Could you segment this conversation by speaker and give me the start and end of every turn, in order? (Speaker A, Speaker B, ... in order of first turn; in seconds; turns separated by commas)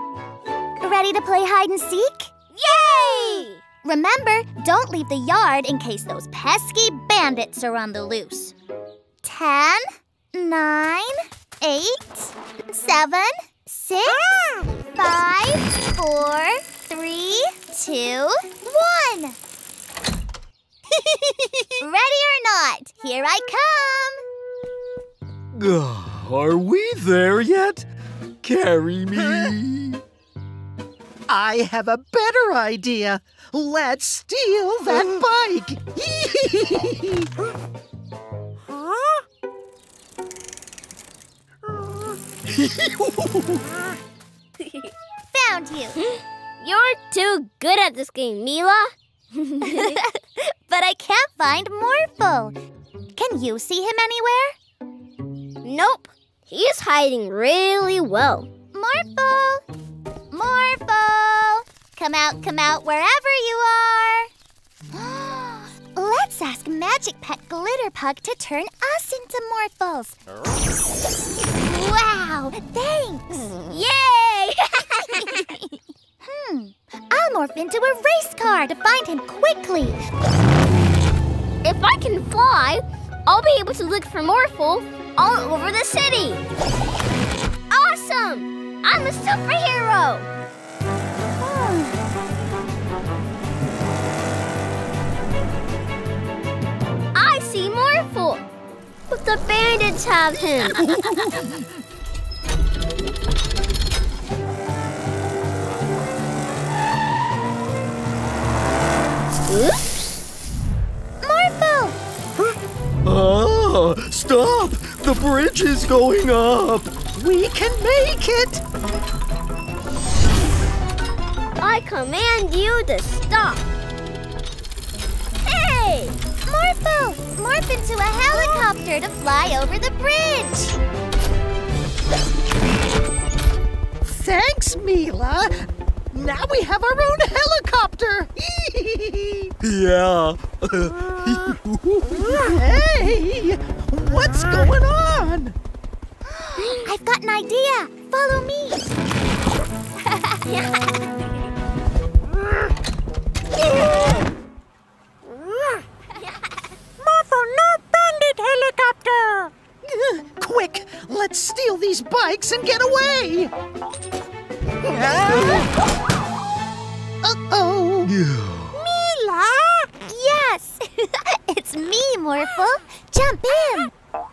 Speaker A: 0.8-8.5, Speaker B: 2.5-3.6, Speaker A: 9.2-14.2, Speaker C: 14.2-14.7, Speaker A: 14.9-19.4, Speaker A: 21.8-24.2, Speaker D: 25.5-27.9, Speaker D: 28.4-30.0, Speaker E: 31.3-37.1, Speaker D: 42.5-43.6, Speaker B: 44.6-44.9, Speaker A: 45.3-46.0, Speaker B: 46.6-50.0, Speaker A: 49.6-52.6, Speaker A: 53.1-54.6, Speaker B: 55.6-58.5, Speaker A: 58.7-59.6, Speaker A: 60.3-64.3, Speaker A: 64.9-70.2, Speaker A: 71.6-73.5, Speaker B: 73.6-75.6, Speaker A: 76.2-80.0, Speaker B: 81.6-86.4, Speaker B: 87.7-90.3, Speaker A: 91.4-92.0, Speaker B: 97.1-98.4, Speaker B: 99.1-101.2, Speaker B: 109.5-109.8, Speaker A: 111.2-112.0, Speaker D: 113.0-116.9, Speaker E: 117.1-118.6, Speaker B: 121.6-123.7, Speaker B: 125.4-126.2, Speaker A: 126.5-130.8, Speaker E: 134.0-139.5, Speaker D: 139.6-142.3, Speaker E: 142.3-145.5, Speaker A: 146.4-148.9, Speaker B: 150.4-150.9, Speaker C: 157.0-159.5, Speaker E: 159.8-163.5, Speaker E: 164.8-165.7, Speaker E: 167.2-168.1, Speaker C: 168.7-169.9, Speaker A: 170.1-173.9